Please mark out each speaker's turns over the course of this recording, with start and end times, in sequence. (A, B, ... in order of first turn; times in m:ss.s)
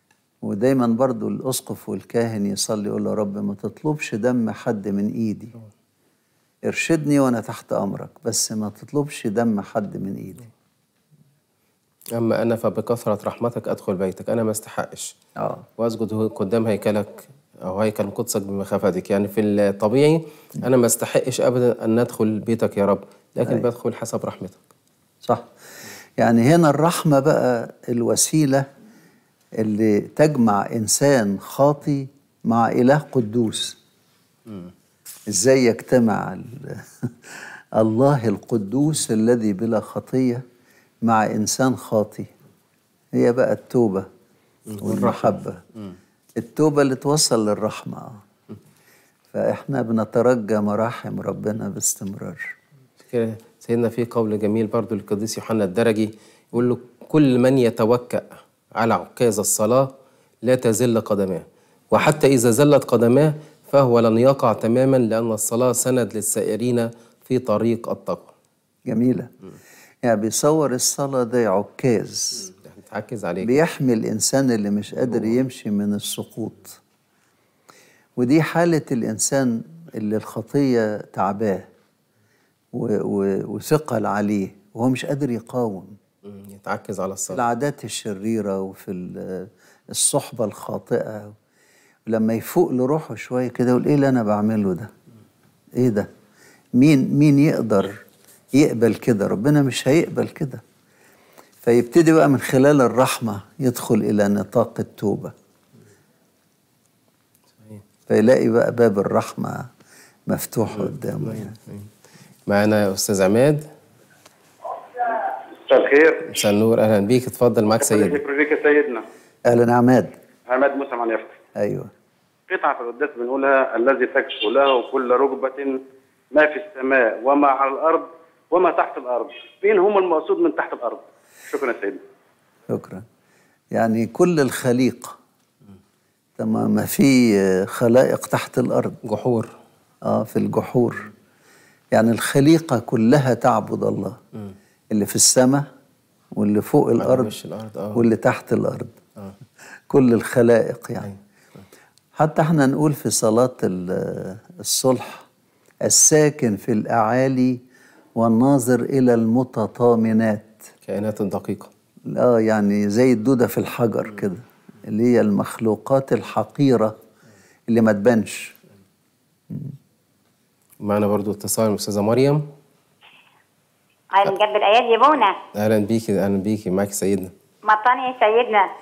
0:00.4-0:05.5 A
0:06.6-0:10.5 A
0:12.2-0:15.2 B
0:15.4-0:15.6 A
0:15.8-0:24.6 B
0:25.2-0:25.5 A
0:26.2-0:28.7 A
0:29.6-0:33.8 A
0:35.3-0:40.4 A
0:41.0-0:42.3 A
0:43.2-0:44.1 A
0:44.7-0:46.0 B
0:44.8-0:45.6 A
0:46.4-0:48.2 A
0:49.3-0:52.5 A
0:53.1-0:59.9 B
1:00.4-1:08.3 B
1:08.9-1:09.3 A
1:10.0-1:12.5 A
1:12.5-1:13.6 B
1:13.4-1:16.8 A
1:18.2-1:21.7 A
1:22.7-1:26.0 A
1:26.2-1:27.4 B
1:27.3-1:31.4 A
1:32.1-1:34.9 A
1:35.8-1:36.1 A
1:36.8-1:38.0 A
1:38.6-1:40.6 A
1:41.6-1:45.3 A
1:48.1-1:49.7 A
1:50.3-1:51.6 A
1:51.2-1:51.9 B
1:52.5-1:53.6 B
1:55.1-1:56.3 C
1:56.3-1:58.2 B
1:57.8-1:59.0 C
1:59.5-2:00.2 A
2:00.5-2:01.4 C
2:01.6-2:01.9 A
2:02.5-2:05.8 C
2:06.3-2:12.0 C
2:12.7-2:13.0 A
2:13.7-2:15.2 A
2:16.4-2:19.0 A
2:19.0-2:19.5 B
2:20.0-2:21.1 A
2:21.9-2:24.2 A
2:24.9-2:25.7 A
2:26.3-2:27.3 A
2:27.0-2:28.1 B
2:27.9-2:29.0 A
2:29.9-2:31.1 A
2:32.2-2:35.3 A
2:35.8-2:37.6 A
2:38.2-2:40.6 A
2:40.8-2:41.7 B
2:42.1-2:47.0 A
2:47.7-2:48.5 A
2:49.5-2:49.8 A
2:50.8-2:52.5 B
2:54.2-2:55.4 D
2:55.6-2:57.3 B
2:57.6-2:58.6 D